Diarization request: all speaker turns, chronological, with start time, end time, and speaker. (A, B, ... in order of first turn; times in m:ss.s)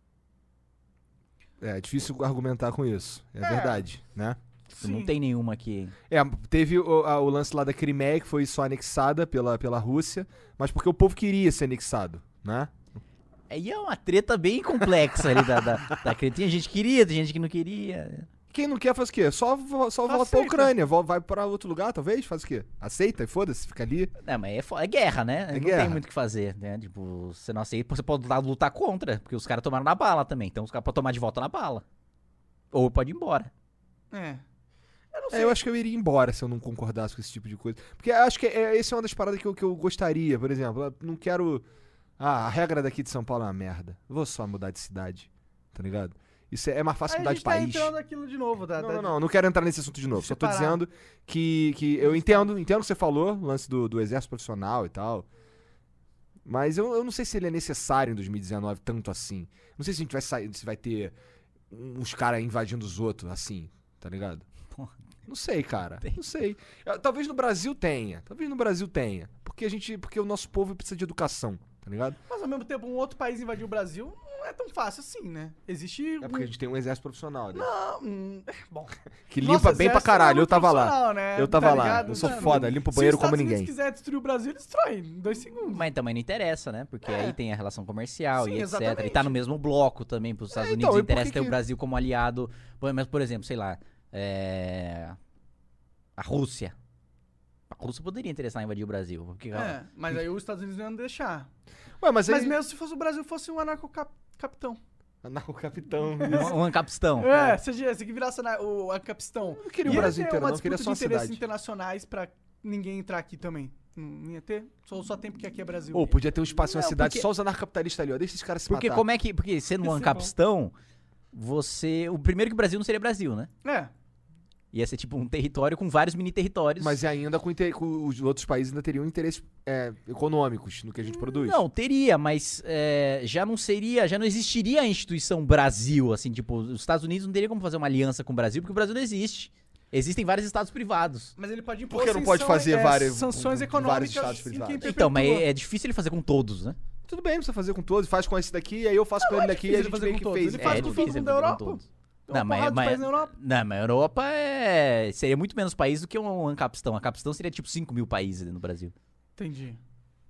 0:01.6-0:04.4 A
0:03.4-0:03.8 B
0:04.7-0:05.1 B
0:04.8-0:05.9 C
0:06.1-0:12.8 A
0:13.5-0:18.3 C
0:18.5-0:24.1 A
0:20.0-0:20.7 B
0:24.2-0:31.8 C
0:25.5-0:26.0 A
0:32.7-0:33.5 C
0:34.1-0:34.4 B
0:35.1-0:35.6 B
0:35.3-0:41.6 A
0:42.2-0:47.9 A
0:47.1-0:49.1 B
0:48.8-0:55.3 A
0:50.1-0:50.8 B
0:52.0-0:52.5 B
0:56.4-1:01.2 A
1:01.7-1:04.4 A
1:05.3-1:12.2 A
1:12.3-1:16.5 B
1:16.2-1:17.7 A
1:17.5-1:25.8 B
1:19.3-1:23.7 A
1:21.7-1:22.6 C
1:25.7-1:35.2 C
1:27.0-1:27.4 B
1:28.3-1:29.4 B
1:30.5-1:31.6 A
1:36.2-1:36.7 C
1:37.7-1:40.2 C
1:39.5-1:41.5 B
1:42.0-1:42.6 A
1:42.3-1:44.8 B
1:45.2-1:46.6 A
1:46.2-1:46.6 B
1:46.3-1:47.5 C
1:47.2-1:56.2 B
1:49.5-1:51.4 A
1:49.9-1:50.1 C
1:55.9-1:59.0 A
1:56.7-1:57.3 C
1:58.7-2:00.7 C
1:59.8-2:00.3 B
2:01.3-2:03.5 C
2:03.6-2:03.9 B
2:04.7-2:07.0 C
2:06.8-2:11.6 A
2:11.1-2:21.3 C
2:21.4-2:25.5 B
2:21.9-2:24.9 A
2:24.8-2:26.8 C
2:27.1-2:31.1 A
2:29.2-2:33.3 B
2:30.6-2:38.9 C
2:39.4-2:39.8 B